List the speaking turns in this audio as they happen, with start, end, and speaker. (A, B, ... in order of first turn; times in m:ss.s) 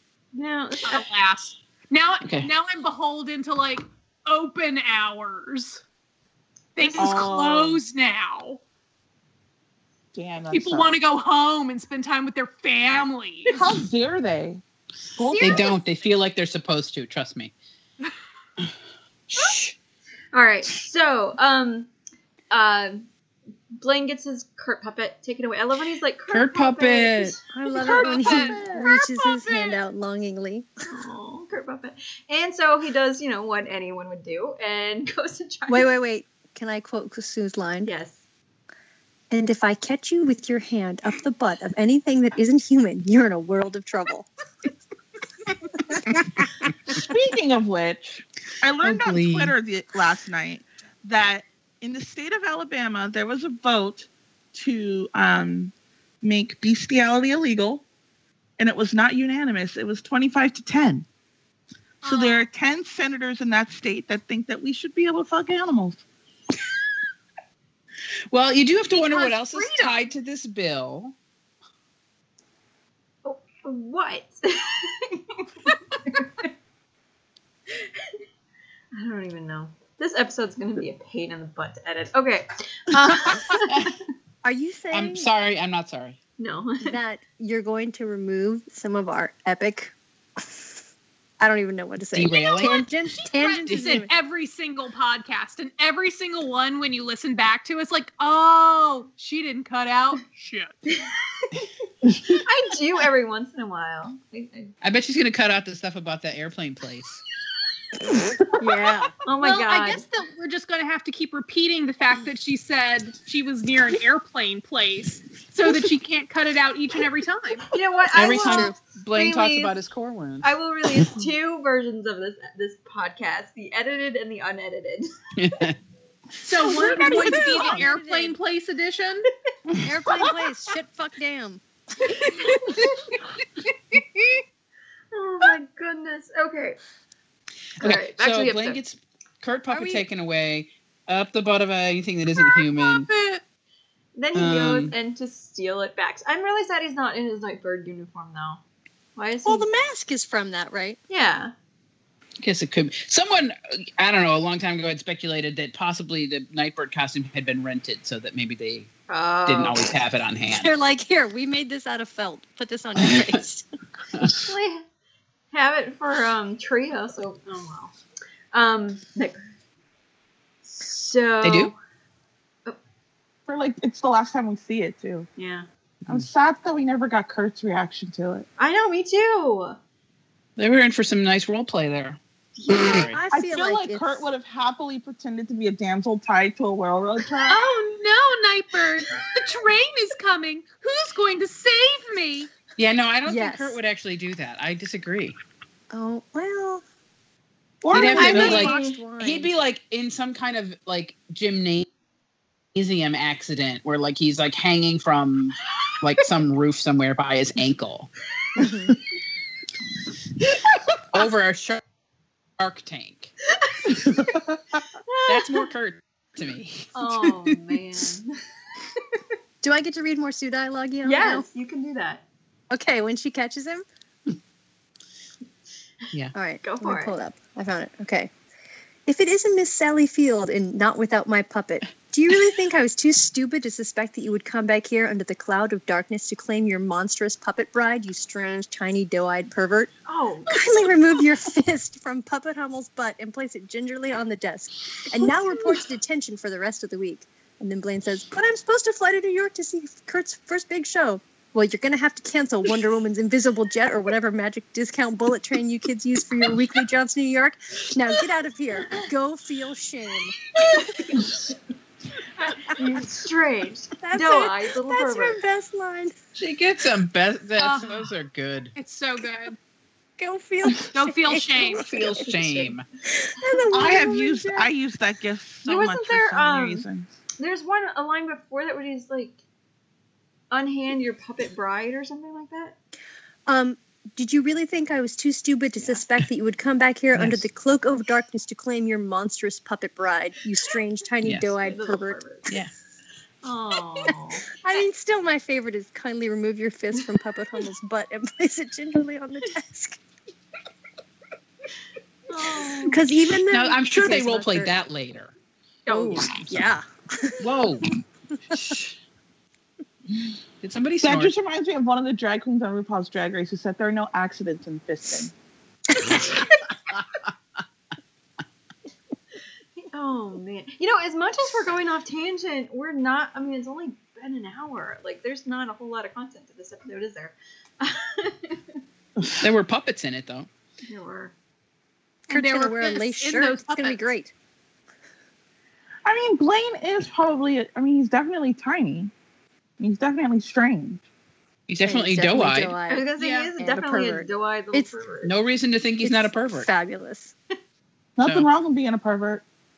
0:00.3-0:01.1 A
0:00.9-0:05.8 B
0:02.2-0:02.5 C
0:06.8-0:08.6 B
0:07.0-0:07.8 D
0:10.1-0:11.0 D
0:10.5-0:13.6 B
0:13.5-0:14.6 D
0:15.2-0:15.7 D
0:15.2-0:15.8 B
0:15.4-0:17.5 C
0:19.3-0:19.8 C
0:20.3-0:21.9 A
0:22.5-0:23.1 A
0:23.7-0:28.3 A
0:26.3-0:27.4 C
0:27.5-0:30.7 E
0:27.8-0:29.7 B
0:27.9-0:28.8 D
0:30.9-0:35.9 A
0:35.7-0:37.9 E
0:37.8-0:38.2 A
0:39.3-0:44.3 E
0:46.9-0:57.8 D
0:48.8-0:49.5 C
0:58.6-1:01.0 D
1:02.0-1:02.5 B
1:02.0-1:06.0 D
1:08.3-1:11.2 C
1:08.9-1:10.0 B
1:13.2-1:15.5 A
1:16.0-1:16.5 A
1:17.7-1:18.2 A
1:18.9-1:24.0 A
1:23.7-1:23.9 C
1:24.4-1:25.3 E
1:24.9-1:26.2 C
1:26.4-1:27.0 A
1:26.8-1:29.9 E
1:31.4-1:34.1 E
1:32.1-1:32.8 C
1:32.3-1:40.8 B
1:42.3-1:44.7 A
1:44.8-1:47.2 C
1:48.6-1:49.1 E
1:49.2-1:50.0 A
1:49.4-1:57.7 B
1:57.7-1:59.8 A
1:58.2-2:00.5 C
1:58.2-1:58.8 E
2:00.4-2:05.0 A
2:05.4-2:05.8 C
2:06.4-2:09.3 B
2:06.6-2:07.9 D
2:07.0-2:07.9 E
2:07.8-2:08.3 A
2:09.8-2:11.6 E
2:15.1-2:16.8 A
2:17.8-2:23.1 C
2:17.8-2:18.8 A
2:19.7-2:20.1 E
2:22.5-2:23.4 B
2:24.2-2:28.6 A
2:24.3-2:24.9 C
2:29.2-2:29.7 A
2:29.4-2:31.0 E
2:31.1-2:31.5 A
2:32.4-2:38.9 C
2:39.1-2:39.9 A
2:39.5-2:40.7 C
2:40.5-2:43.7 E
2:43.0-2:43.4 C
2:44.4-2:44.8 A
2:45.5-2:48.0 A
2:48.5-2:49.4 A
2:50.6-2:51.8 A
2:51.4-2:51.7 C
2:53.5-2:55.3 D
2:55.4-2:55.7 A
2:56.1-2:58.5 D
2:58.6-2:59.8 A
3:00.6-3:03.2 C
3:02.6-3:03.1 A
3:02.9-3:04.3 E
3:03.3-3:07.6 D
3:07.5-3:12.5 B
3:12.8-3:15.4 C
3:13.3-3:13.8 E
3:15.9-3:16.8 E
3:17.8-3:18.8 D
3:17.9-3:19.5 E
3:17.9-3:21.9 C
3:18.2-3:18.6 B
3:18.2-3:19.0 A
3:22.8-3:28.1 C
3:28.6-3:29.0 E
3:31.1-3:31.8 C
3:32.6-3:33.3 C
3:33.6-3:34.1 A
3:35.1-3:35.7 A
3:35.3-3:37.6 C
3:36.9-3:39.0 A
3:39.6-3:41.5 E
3:41.0-3:42.2 A
3:42.7-3:43.8 E
3:46.3-3:48.3 E
3:46.6-3:47.2 A
3:49.1-3:59.9 E
4:00.1-4:00.9 A
4:00.5-4:20.4 E
4:21.0-4:21.3 A
4:22.7-4:25.4 A
4:24.0-4:26.2 E
4:26.4-4:28.7 C
4:27.6-4:28.1 B
4:28.8-4:29.6 B
4:30.2-4:32.3 E
4:30.9-4:31.8 B
4:31.8-4:32.8 C
4:32.3-4:32.7 A
4:33.2-4:34.7 E
4:33.7-4:37.1 D
4:35.6-4:36.8 A
4:37.4-4:39.4 A
4:40.5-4:42.8 A
4:43.5-4:52.2 E
4:47.1-4:47.4 C
4:51.2-4:51.5 C
4:51.6-4:52.6 A
4:53.4-4:54.8 A
4:54.6-5:00.0 E
5:02.3-5:03.0 A
5:02.9-5:04.7 E
5:03.5-5:05.3 C
5:05.9-5:06.3 A
5:05.9-5:07.5 E
5:06.3-5:06.6 C
5:07.4-5:07.9 C
5:08.5-5:08.9 C
5:08.5-5:08.8 E
5:10.6-5:11.3 C
5:11.0-5:15.3 D
5:16.9-5:17.3 C
5:19.9-5:28.8 A
5:29.4-5:30.5 C
5:30.9-5:31.3 A
5:32.3-5:34.0 B
5:32.3-5:34.3 E
5:36.0-5:39.1 D
5:39.8-5:41.0 D
5:41.7-5:42.8 C
5:41.8-5:44.9 E
5:42.9-5:45.4 A
5:43.2-5:43.5 B
5:45.2-5:46.7 C
5:46.0-5:47.3 E
5:48.2-5:49.4 D
5:48.2-5:48.5 C